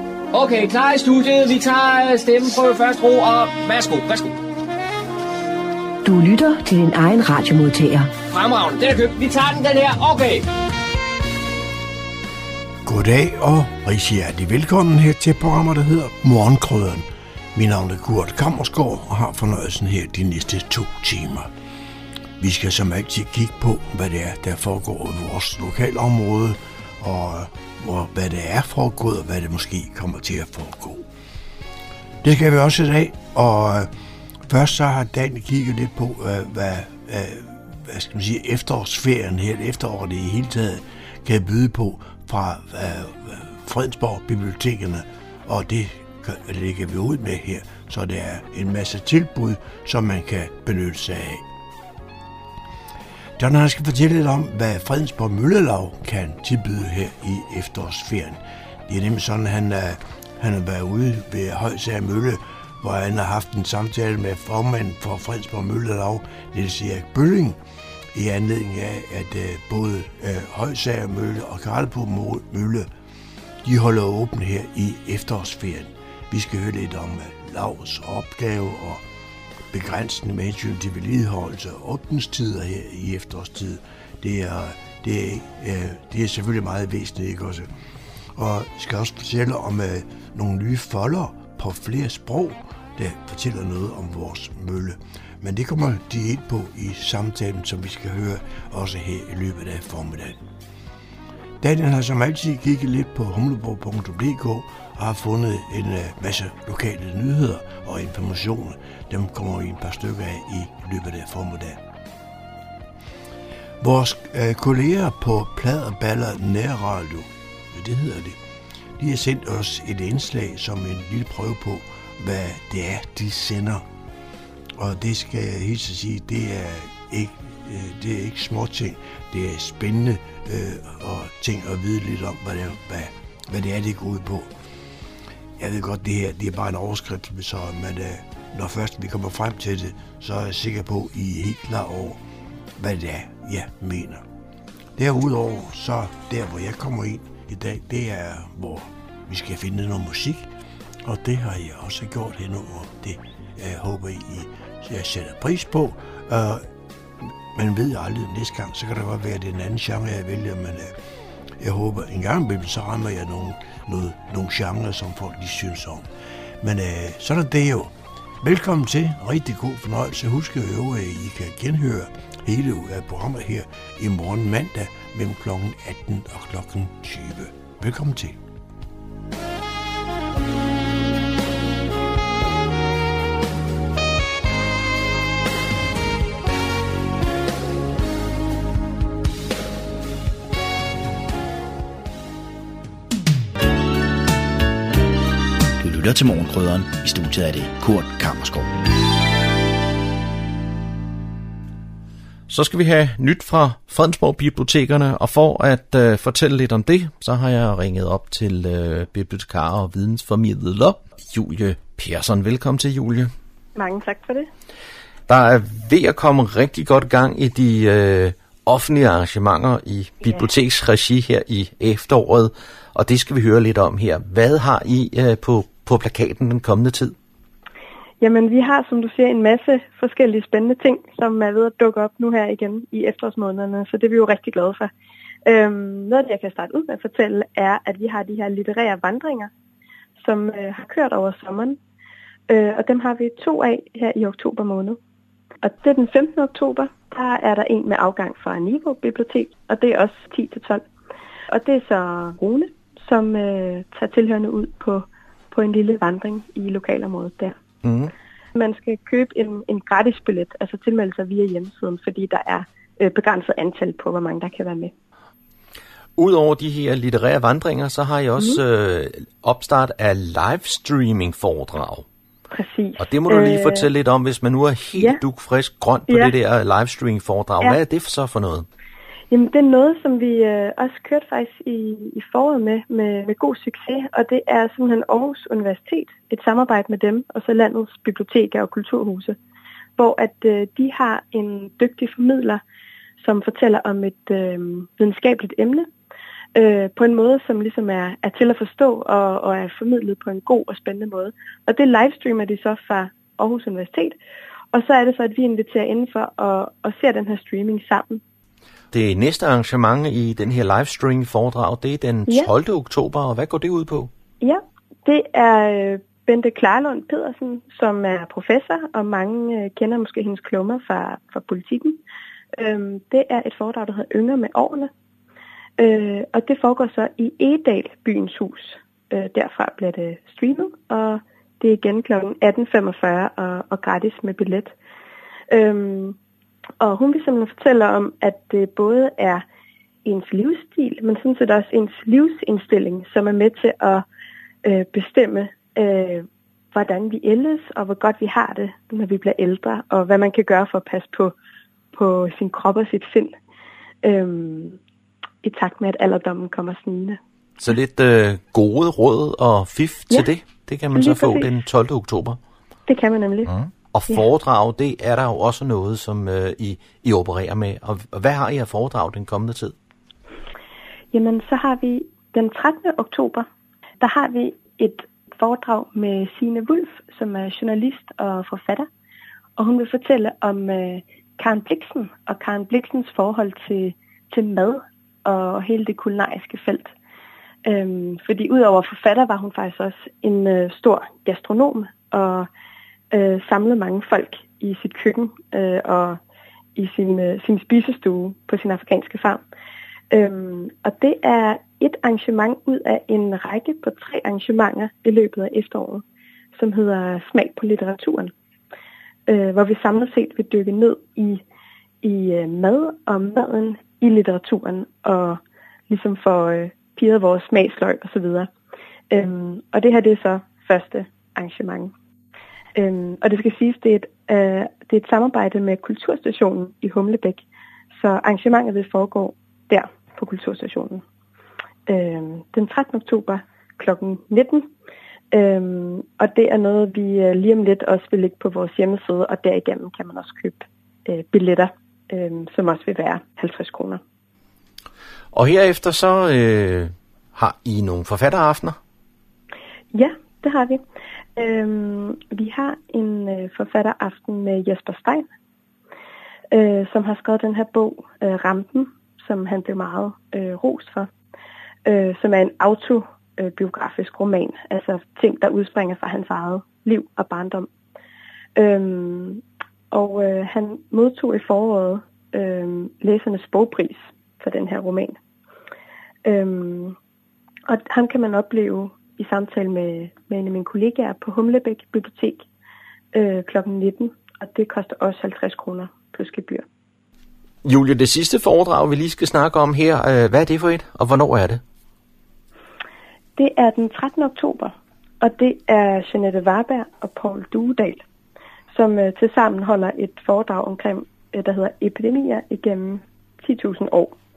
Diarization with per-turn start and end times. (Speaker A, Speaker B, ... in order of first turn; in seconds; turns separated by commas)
Speaker A: 0.3-4.4, Speaker B: 6.0-8.1, Speaker A: 8.3-10.4, Speaker C: 12.8-21.5, Speaker C: 22.4-31.1, Speaker C: 32.2-33.9, Speaker C: 34.4-51.4, Speaker C: 53.4-67.6, Speaker C: 68.1-72.9, Speaker C: 73.6-79.0, Speaker C: 79.7-87.7, Speaker C: 88.3-100.4, Speaker C: 101.6-111.8, Speaker C: 113.8-118.4, Speaker C: 119.0-123.8, Speaker C: 124.7-134.5, Speaker C: 135.6-142.2, Speaker C: 142.8-144.2, Speaker C: 144.9-150.5, Speaker C: 151.0-156.7, Speaker C: 157.2-160.9, Speaker C: 161.6-166.1, Speaker C: 166.6-178.4, Speaker D: 195.8-198.8, Speaker E: 202.5-213.3, Speaker F: 213.8-214.5, Speaker E: 215.3-227.1, Speaker F: 228.2-234.9, Speaker F: 235.4-239.5, Speaker F: 240.2-241.8, Speaker F: 242.5-245.0, Speaker F: 245.6-250.8, Speaker F: 251.5-257.5, Speaker E: 257.8-258.1, Speaker F: 258.5-264.9, Speaker E: 266.2-272.1, Speaker F: 272.5-273.9, Speaker E: 273.0-278.7, Speaker F: 279.3-289.4, Speaker F: 290.0-292.6, Speaker F: 293.2-295.9, Speaker F: 296.5-304.2, Speaker F: 304.7-308.2, Speaker E: 308.9-314.1, Speaker F: 314.4-322.0, Speaker F: 322.6-324.9, Speaker F: 325.8-334.7, Speaker F: 335.5-336.2, Speaker F: 336.8-339.4, Speaker F: 340.0-344.0, Speaker F: 344.6-351.3, Speaker F: 351.9-353.4, Speaker F: 354.0-354.8, Speaker F: 355.4-357.2, Speaker E: 357.6-362.4, Speaker F: 360.9-361.5, Speaker F: 362.9-363.5, Speaker E: 363.5-369.7, Speaker F: 371.1-373.5, Speaker F: 374.0-378.9, Speaker F: 379.6-386.9, Speaker F: 387.6-392.5, Speaker F: 393.1-396.2, Speaker F: 396.8-399.4, Speaker F: 400.1-406.0, Speaker F: 406.6-408.3, Speaker F: 409.3-411.4, Speaker F: 412.0-418.5, Speaker F: 419.1-421.9, Speaker F: 422.7-427.4, Speaker F: 427.9-431.0, Speaker F: 431.9-434.7, Speaker F: 435.3-444.0, Speaker E: 445.3-448.8, Speaker F: 449.9-450.8, Speaker F: 451.4-455.2, Speaker F: 456.5-461.1, Speaker F: 461.8-467.7, Speaker F: 468.6-475.2, Speaker F: 476.2-476.9, Speaker F: 477.7-482.4, Speaker F: 483.1-486.6, Speaker E: 487.6-491.6, Speaker F: 493.4-498.0, Speaker F: 498.7-504.1